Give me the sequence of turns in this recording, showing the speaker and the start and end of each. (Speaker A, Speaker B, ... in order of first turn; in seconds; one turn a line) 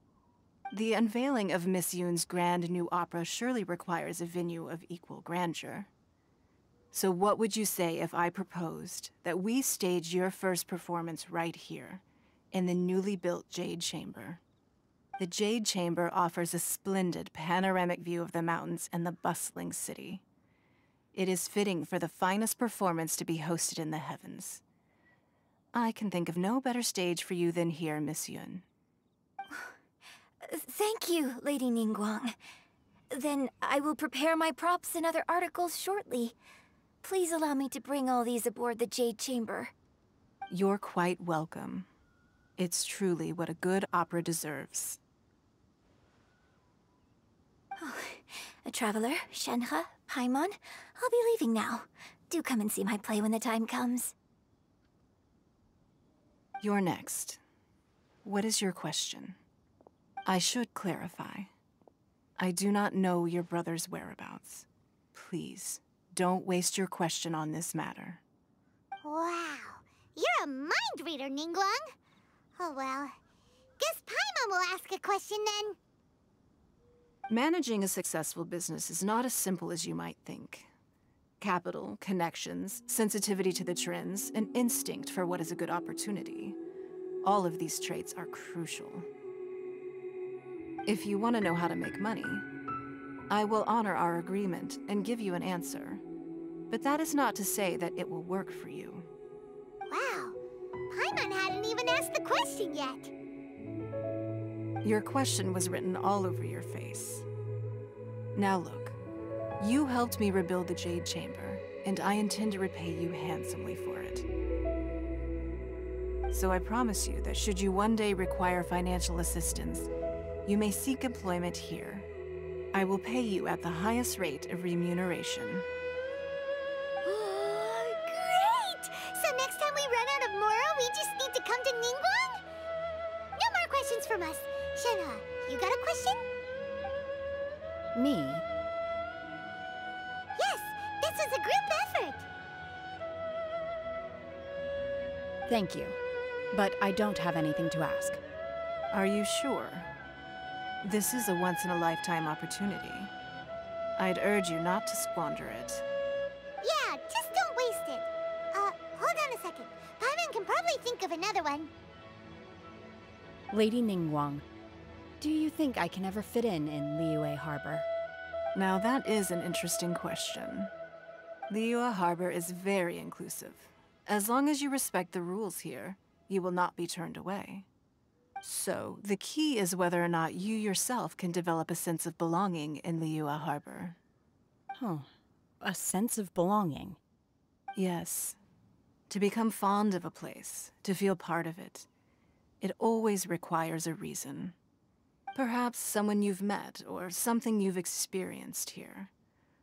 Speaker A: 0.7-5.9
Speaker A: 6.9-14.4
Speaker A: 15.2-20.2
Speaker A: 21.1-24.6
Speaker A: 25.7-28.6
Speaker B: 29.5-29.8
Speaker B: 30.4-32.4
Speaker B: 33.1-36.4
Speaker B: 37.0-39.7
Speaker A: 40.5-41.9
Speaker A: 42.6-45.0
Speaker B: 47.8-54.1
Speaker A: 56.6-57.4
Speaker A: 58.2-59.4
Speaker A: 60.3-61.5
Speaker A: 62.4-68.2
Speaker C: 69.0-71.9
Speaker C: 72.6-73.2
Speaker C: 73.8-75.8
Speaker A: 77.3-80.7
Speaker A: 81.4-86.6
Speaker A: 87.2-89.1
Speaker A: 90.9-92.5
Speaker A: 93.3-96.0
Speaker A: 96.7-99.1
Speaker C: 99.9-100.4
Speaker C: 100.9-103.1
Speaker A: 104.8-107.3
Speaker A: 108.3-109.0
Speaker A: 109.6-114.3
Speaker A: 116.3-119.9
Speaker A: 120.5-122.1
Speaker A: 122.7-125.7
Speaker C: 127.0-132.4
Speaker C: 133.4-136.2
Speaker D: 137.9-138.5
Speaker C: 140.4-142.3
Speaker D: 145.5-146.0
Speaker D: 146.5-148.2
Speaker A: 148.9-149.9
Speaker A: 150.8-153.1
Speaker A: 154.0-155.8
Speaker C: 156.6-161.7
Speaker D: 163.5-164.5
Speaker D: 165.2-167.9
Speaker A: 168.6-170.7
Speaker A: 171.5-177.7
Speaker A: 178.4-184.0
Speaker D: 184.8-185.1
Speaker D: 185.6-187.0
Speaker A: 187.8-188.4
Speaker A: 189.1-191.9
Speaker A: 192.6-194.6
Speaker A: 195.3-199.1